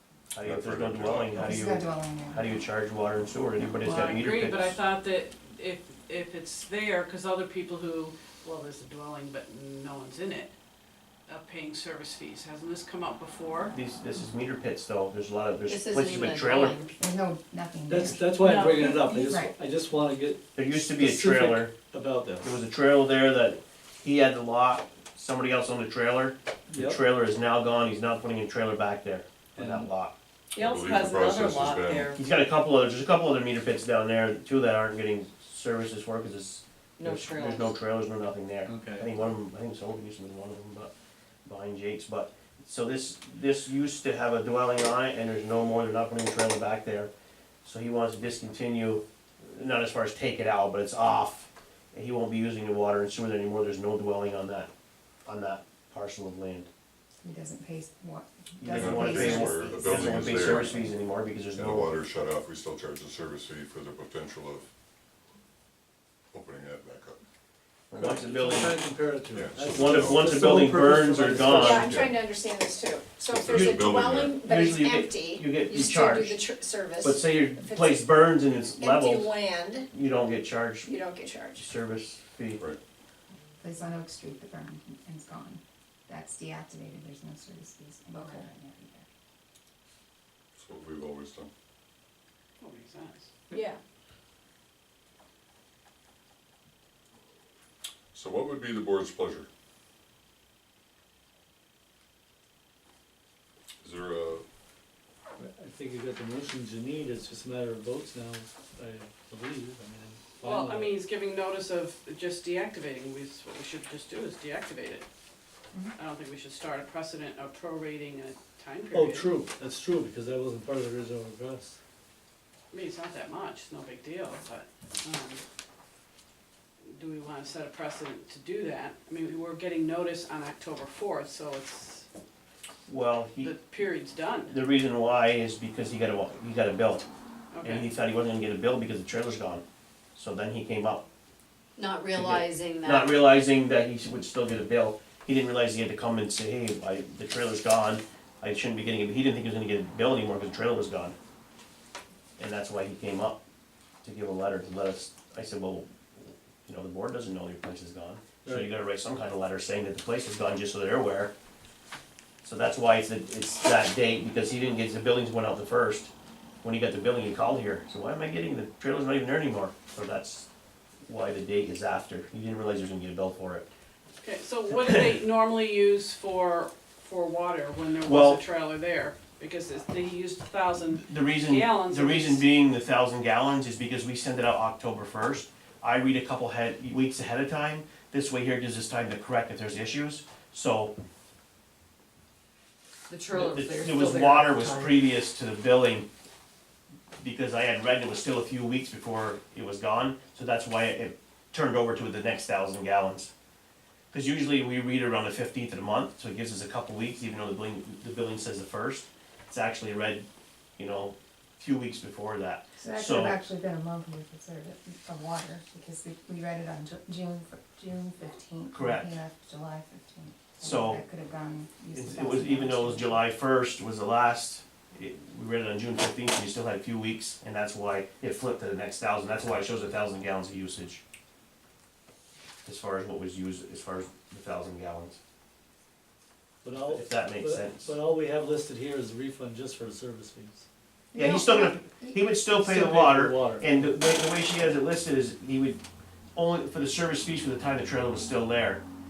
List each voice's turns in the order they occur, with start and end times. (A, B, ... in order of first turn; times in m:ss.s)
0:00.3-0:04.8 A
0:00.4-0:01.4 B
0:01.3-0:02.7 C
0:03.8-0:10.5 D
0:11.3-0:13.7 D
0:13.7-0:16.8 A
0:15.6-0:16.9 E
0:17.0-0:18.4 C
0:17.9-0:22.6 F
0:18.4-0:19.2 D
0:19.2-0:19.5 C
0:20.5-0:21.7 A
0:22.4-0:30.1 A
0:26.7-0:27.0 F
0:29.6-0:29.9 F
0:30.5-0:32.2 G
0:30.6-0:32.1 B
0:32.1-0:40.9 A
0:37.0-0:37.6 G
0:38.6-0:39.1 F
0:41.4-0:47.1 A
0:47.6-0:54.7 A
0:55.2-0:56.7 A
0:57.2-1:01.0 C
0:58.6-1:02.0 A
0:58.7-1:00.8 B
1:01.5-1:04.7 B
1:06.3-1:07.2 B
1:07.9-1:08.8 A
1:07.9-1:12.0 F
1:09.3-1:10.4 B
1:09.6-1:11.8 A
1:11.7-1:12.2 B
1:11.8-1:12.2 H
1:12.7-1:13.6 H
1:13.2-1:14.4 B
1:13.5-1:16.5 A
1:15.7-1:17.0 H
1:17.0-1:19.4 A
1:19.9-1:21.0 A
1:21.5-1:22.6 A
1:23.6-1:29.0 C
1:30.6-1:31.5 B
1:32.6-1:33.3 D
1:38.1-1:39.5 B
1:43.8-1:44.4 B
1:45.4-1:51.0 F
1:50.4-1:55.0 D
1:55.9-1:59.3 D
1:58.9-2:01.8 F
2:02.7-2:05.4 D
2:06.9-2:12.1 D
2:12.9-2:13.5 A
2:13.4-2:14.6 D
2:14.5-2:17.0 A
2:17.5-2:17.9 D
2:17.6-2:19.6 A
2:20.1-2:21.0 A
2:21.8-2:23.2 E
2:22.1-2:31.1 A
2:32.4-2:33.4 A
2:34.0-2:41.3 A
2:38.4-2:38.7 F
2:42.4-2:46.1 A
2:46.6-2:50.5 A
2:51.0-2:53.7 A
2:54.2-3:02.4 D
2:54.7-2:55.0 A
2:58.0-2:58.4 A
3:00.9-3:10.9 A
3:13.1-3:14.9 G
3:13.3-3:16.1 A
3:17.2-3:23.3 A
3:24.1-3:30.2 A
3:30.8-3:33.4 A
3:32.8-3:43.3 C
3:38.7-3:39.2 A
3:40.6-3:41.0 A
3:41.9-3:51.0 A
3:52.6-3:55.2 A
3:56.6-4:00.6 F
3:56.8-3:57.9 A
4:01.1-4:02.3 C
4:01.1-4:05.8 A
4:02.6-4:03.9 F
4:06.4-4:08.8 A